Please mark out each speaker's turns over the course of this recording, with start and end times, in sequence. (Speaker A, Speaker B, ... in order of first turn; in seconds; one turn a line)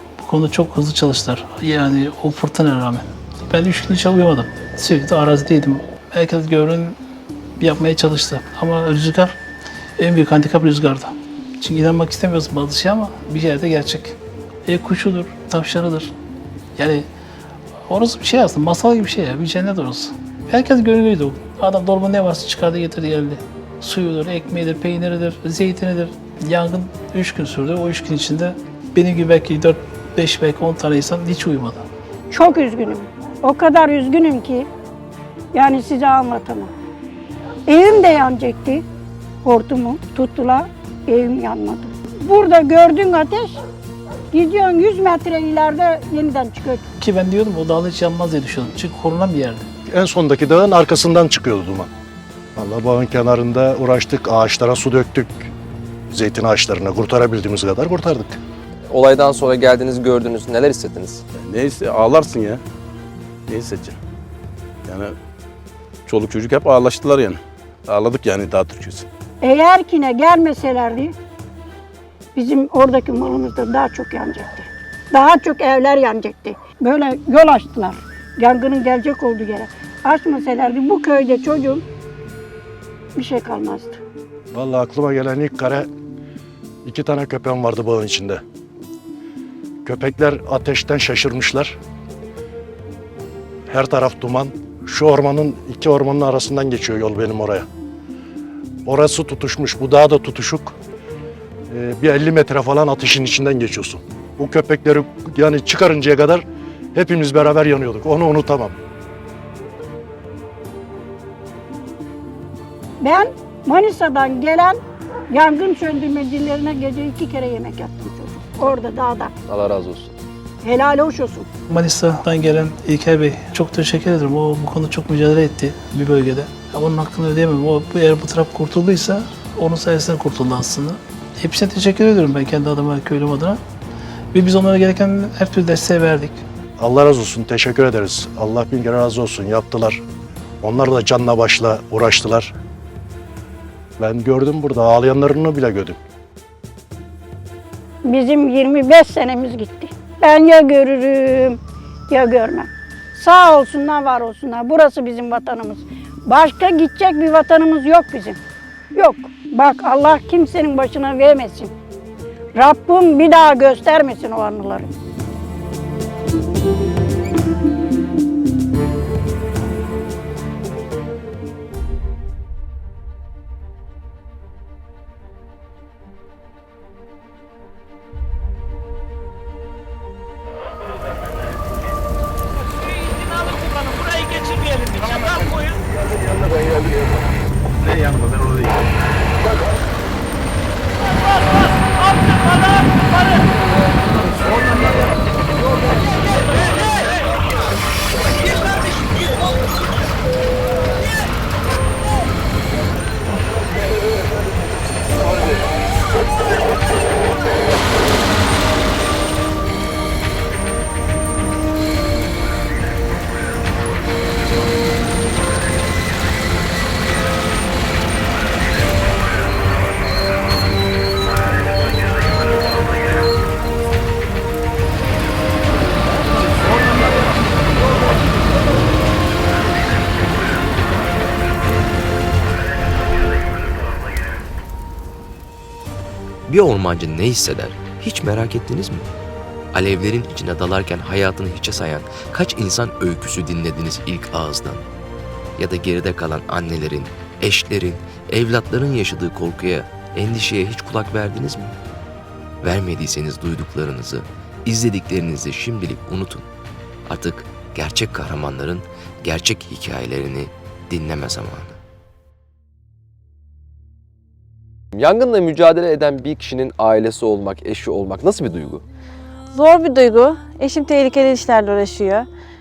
Speaker A: 0.2-7.0
Speaker A: 7.6-9.4
Speaker A: 10.0-16.1
Speaker A: 16.8-17.1
Speaker A: 17.9-31.9
Speaker B: 32.3-34.7
Speaker B: 35.5-36.7
Speaker B: 37.7-38.8
Speaker B: 39.4-43.6
Speaker B: 44.3-46.8
Speaker A: 47.0-49.7
Speaker C: 49.9-51.9
Speaker C: 52.6-55.5
Speaker C: 56.1-58.4
Speaker D: 58.9-61.2
Speaker E: 61.3-62.6
Speaker E: 63.5-64.0
Speaker E: 64.8-65.2
Speaker E: 66.1-69.1
Speaker B: 69.4-71.1
Speaker B: 72.3-81.8
Speaker B: 83.2-84.0
Speaker C: 84.5-85.9
Speaker C: 86.8-88.4
Speaker C: 89.8-91.8
Speaker C: 93.7-97.7
Speaker C: 98.8-100.8
Speaker C: 101.7-106.4
Speaker C: 106.9-108.8
Speaker B: 113.0-114.8
Speaker B: 115.3-119.3
Speaker D: 119.5-120.1
Speaker B: 120.6-121.5
Speaker A: 121.7-133.6
Speaker A: 134.3-136.4
Speaker C: 136.8-140.0
Speaker C: 140.6-142.5
Speaker C: 144.0-146.0
Speaker B: 148.1-151.6
Speaker B: 152.1-158.4
Speaker B: 158.9-161.7
Speaker B: 162.6-164.9
Speaker F: 236.5-239.1
Speaker F: 239.7-244.8
Speaker F: 245.6-251.8
Speaker F: 252.6-256.5
Speaker F: 257.1-261.8
Speaker D: 264.9-268.8
Speaker G: 269.5-272.3